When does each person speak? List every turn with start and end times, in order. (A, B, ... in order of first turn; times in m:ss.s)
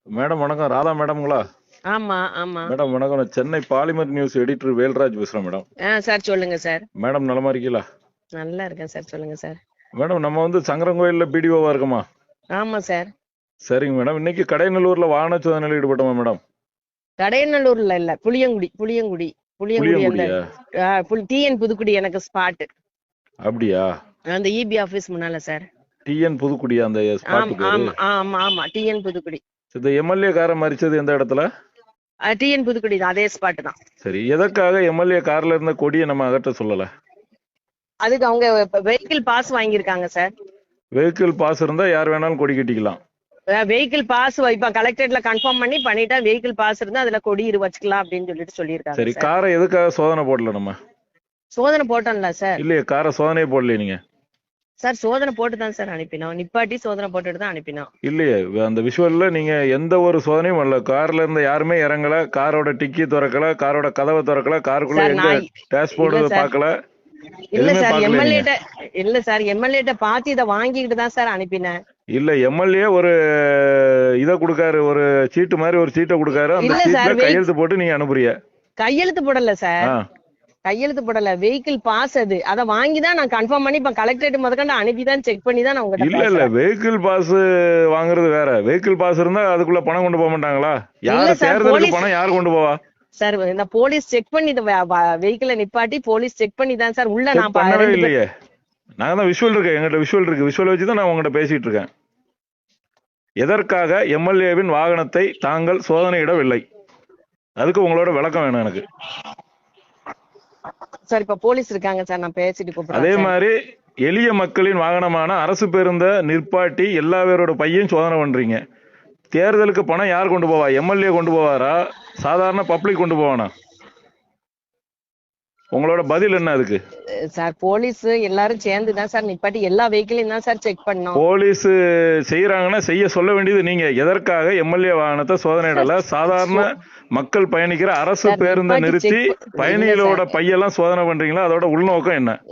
0:00.1-0:01.4 A
0:01.9-0:02.7 B
0:02.7-0:05.6 A
0:05.9-0:06.8 B
0:07.0-0:07.8 A
0:08.4-0:09.6 B
0:10.0-0:12.0 A
0:12.5-0:13.1 B
0:13.7-0:16.4 A
0:17.2-0:22.7 B
0:19.8-0:20.4 A
0:23.5-0:23.9 A
0:24.3-0:25.6 B
0:26.1-0:28.0 A
0:27.3-0:29.4 B
0:29.7-0:31.4 A
0:32.3-0:33.8 B
0:34.0-0:36.9 A
0:38.0-0:40.3 B
0:41.0-0:43.0 A
0:43.5-0:49.3 B
0:49.0-0:50.8 A
0:51.5-0:52.6 B
0:52.6-0:54.0 A
0:54.8-0:57.9 B
0:58.0-1:06.7 A
1:04.9-1:06.5 B
1:07.5-1:11.8 B
1:07.6-1:08.5 A
1:12.1-1:18.3 A
1:16.6-1:17.4 B
1:18.8-1:19.9 B
1:20.6-1:26.5 B
1:26.0-1:32.8 A
1:31.1-1:32.1 B
1:33.2-1:38.1 B
1:37.3-1:38.2 A
1:39.0-1:41.9 A
1:43.4-1:46.6 A
1:47.6-1:48.8 A
1:51.1-1:53.3 B
1:52.9-1:53.5 A
1:54.0-1:58.6 A
1:59.3-2:03.5 A
2:05.7-2:06.8 A
2:07.3-2:11.2 B
2:11.2-2:11.8 A
2:12.3-2:22.4 A
2:15.7-2:16.7 B
2:18.2-2:20.4 B